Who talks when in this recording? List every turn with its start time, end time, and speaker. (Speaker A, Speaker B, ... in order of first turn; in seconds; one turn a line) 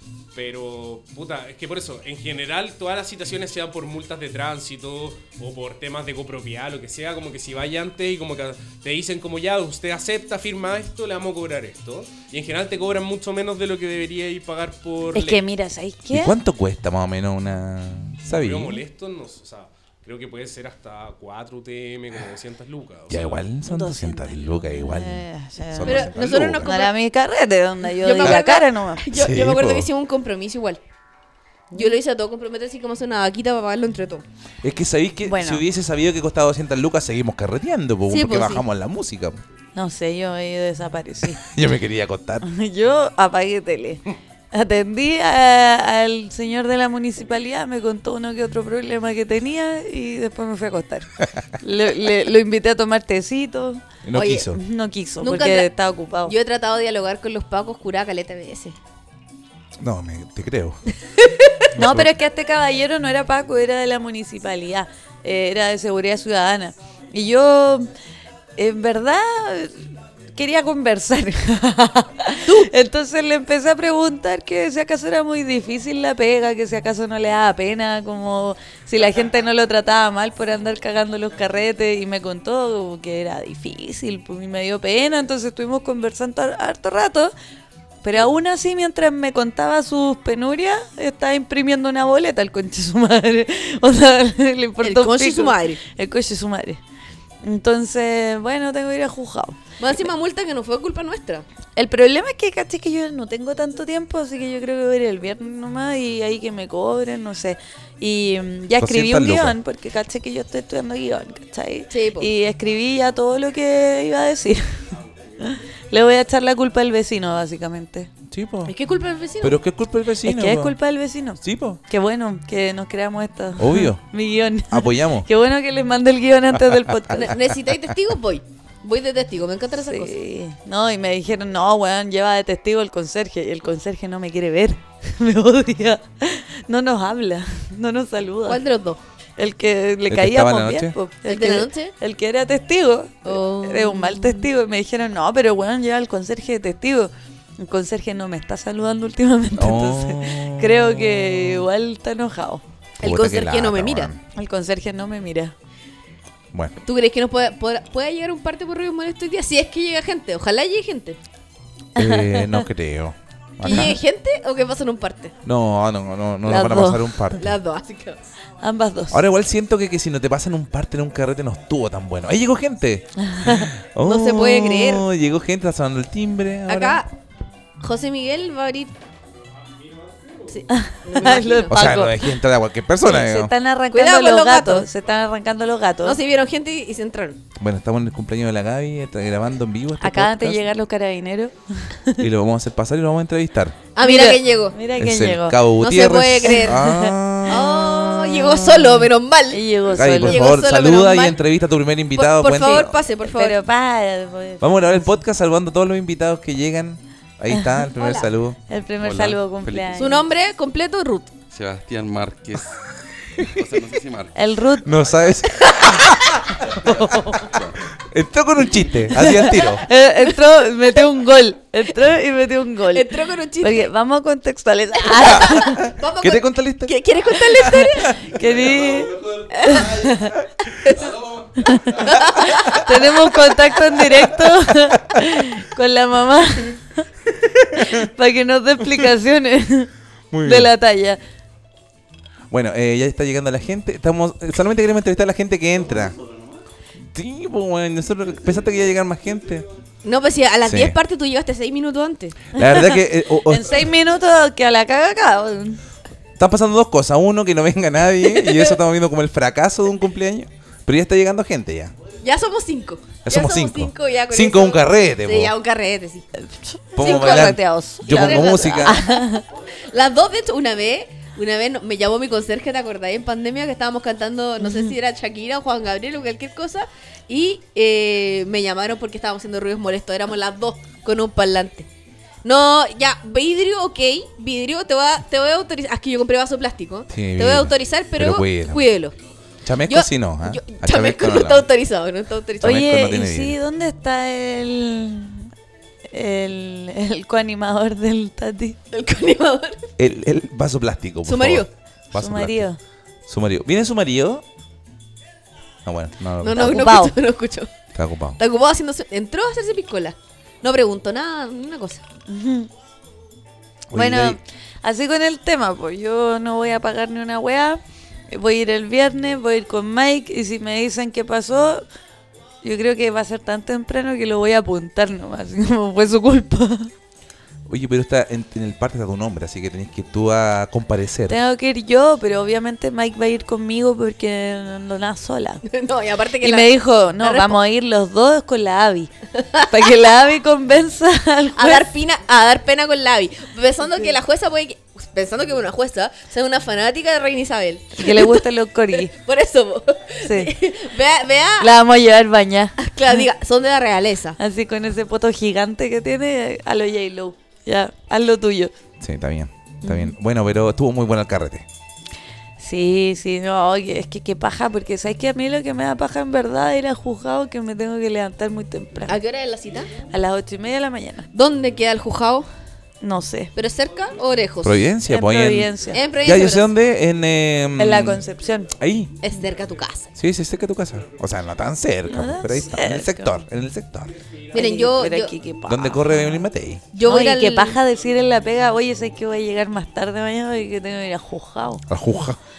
Speaker A: 0.3-15.4
Speaker B: 15.1-16.3
Speaker C: 16.1-18.8
Speaker A: 18.3-23.4
Speaker C: 23.1-26.7
Speaker B: 23.6-26.1
Speaker D: 25.8-26.9
Speaker B: 26.6-29.0
Speaker D: 28.0-30.8
Speaker C: 29.1-29.9
Speaker D: 31.7-34.2
Speaker C: 34.6-39.4
Speaker B: 35.2-35.6
Speaker D: 38.1-38.6
Speaker B: 39.7-41.4
Speaker C: 41.4-42.5
Speaker B: 42.4-51.1
Speaker B: 51.6-53.8
Speaker C: 54.0-54.6
Speaker D: 54.1-54.5
Speaker B: 54.5-56.3
Speaker D: 55.2-55.7
Speaker D: 56.2-58.8
Speaker C: 59.8-60.8
Speaker D: 61.2-61.6
Speaker C: 61.7-62.1
Speaker B: 61.7-67.9
Speaker B: 68.6-87.3
Speaker B: 88.0-96.8
Speaker D: 94.8-95.8
Speaker B: 97.4-99.6
Speaker D: 99.8-101.5
Speaker B: 101.8-114.7
Speaker C: 108.8-109.6
Speaker D: 111.9-112.3
Speaker B: 115.4-118.1
Speaker C: 118.3-118.7
Speaker D: 118.7-119.6
Speaker C: 119.4-120.8
Speaker B: 120.2-127.3
Speaker C: 121.4-121.8
Speaker C: 123.6-124.0
Speaker C: 124.7-125.3
Speaker D: 127.1-130.1
Speaker B: 129.8-138.6
Speaker D: 138.4-139.0
Speaker B: 139.4-152.6
Speaker C: 140.1-140.9
Speaker D: 141.2-141.9
Speaker D: 143.2-144.5
Speaker C: 149.5-151.6
Speaker D: 153.0-154.1
Speaker C: 153.0-154.2
Speaker B: 154.3-155.5
Speaker D: 156.8-161.2
Speaker C: 161.9-164.0
Speaker B: 162.0-162.6
Speaker D: 163.6-165.3
Speaker B: 163.7-163.9
Speaker C: 165.4-167.5
Speaker B: 166.4-167.2
Speaker D: 167.4-168.2
Speaker B: 168.6-169.2
Speaker C: 169.1-177.0
Speaker B: 173.3-173.7
Speaker D: 174.0-175.0
Speaker D: 176.7-177.1
Speaker D: 177.8-178.9
Speaker D: 180.5-181.7
Speaker B: 180.7-182.2
Speaker C: 181.7-183.5
Speaker B: 183.0-186.2
Speaker D: 183.9-184.9
Speaker D: 186.0-187.4
Speaker C: 187.6-190.7
Speaker B: 190.0-192.2
Speaker C: 192.2-193.8
Speaker D: 193.9-194.8
Speaker B: 194.0-195.6
Speaker C: 195.0-198.0
Speaker D: 195.8-196.8
Speaker B: 196.5-197.6
Speaker D: 197.5-201.4
Speaker B: 198.1-198.8
Speaker B: 199.5-200.4
Speaker C: 199.9-202.9
Speaker D: 202.1-203.6
Speaker B: 202.6-205.0
Speaker C: 204.6-208.6
Speaker B: 207.5-207.8
Speaker D: 208.0-208.3
Speaker B: 208.7-210.2
Speaker E: 209.0-210.0
Speaker D: 209.9-211.3
Speaker E: 211.5-212.7
Speaker C: 213.4-213.6
Speaker E: 213.4-214.3
Speaker B: 214.3-214.9
Speaker C: 214.8-216.6
Speaker D: 215.6-216.1
Speaker B: 216.8-217.5
Speaker E: 217.5-217.8
Speaker C: 217.9-219.8
Speaker B: 219.1-225.8
Speaker D: 222.9-223.9
Speaker D: 225.1-228.2
Speaker C: 225.2-228.3
Speaker B: 228.3-230.4
Speaker D: 229.5-230.0
Speaker D: 230.7-231.2
Speaker B: 231.6-237.0
Speaker D: 231.9-232.9
Speaker B: 237.8-239.9
Speaker C: 240.3-240.7
Speaker B: 240.4-241.2
Speaker C: 242.5-246.2
Speaker C: 247.1-249.7
Speaker D: 250.0-252.3
Speaker C: 250.6-250.9
Speaker C: 252.5-253.9
Speaker B: 252.6-255.8
Speaker C: 256.4-261.9
Speaker D: 258.2-258.8
Speaker D: 262.2-266.3
Speaker C: 263.2-265.5
Speaker B: 266.4-269.4
Speaker C: 266.9-269.0
Speaker D: 267.0-269.3
Speaker D: 269.9-281.9
Speaker B: 274.6-274.9
Speaker D: 282.4-289.1
Speaker C: 287.1-288.8
Speaker C: 289.6-291.7
Speaker D: 289.8-292.9
Speaker C: 292.6-293.6
Speaker B: 292.6-295.4
Speaker B: 296.1-298.8
Speaker D: 298.9-299.9
Speaker C: 300.0-302.7
Speaker D: 301.2-301.7
Speaker B: 302.1-302.8
Speaker C: 303.3-304.4
Speaker C: 305.8-306.8
Speaker D: 306.4-307.7
Speaker B: 306.6-307.1
Speaker C: 307.9-308.4
Speaker D: 308.4-312.0
Speaker B: 312.3-312.7
Speaker C: 313.9-314.4
Speaker B: 313.9-321.8
Speaker B: 322.6-326.9
Speaker C: 327.7-331.4
Speaker B: 331.3-335.6
Speaker D: 335.6-337.6
Speaker B: 336.4-339.1
Speaker D: 339.4-339.7
Speaker B: 339.7-341.9
Speaker D: 341.6-348.4
Speaker B: 348.0-349.1
Speaker D: 349.0-351.7
Speaker B: 350.2-350.5
Speaker B: 351.6-353.2
Speaker D: 352.8-354.4
Speaker B: 354.4-358.7
Speaker C: 359.0-361.6
Speaker B: 359.8-360.1
Speaker B: 362.6-369.2
Speaker D: 369.1-369.9
Speaker B: 370.1-371.2
Speaker D: 371.3-372.5
Speaker B: 373.0-373.5
Speaker D: 373.5-374.9
Speaker C: 374.6-378.2
Speaker B: 375.1-376.0
Speaker D: 375.9-376.7
Speaker B: 377.8-378.7
Speaker C: 378.8-379.1
Speaker D: 379.2-380.1
Speaker C: 380.1-384.1
Speaker B: 382.1-383.4
Speaker D: 384.5-385.3
Speaker B: 384.5-386.4
Speaker C: 385.7-386.9
Speaker D: 386.9-387.8
Speaker B: 387.0-391.8
Speaker C: 391.9-392.4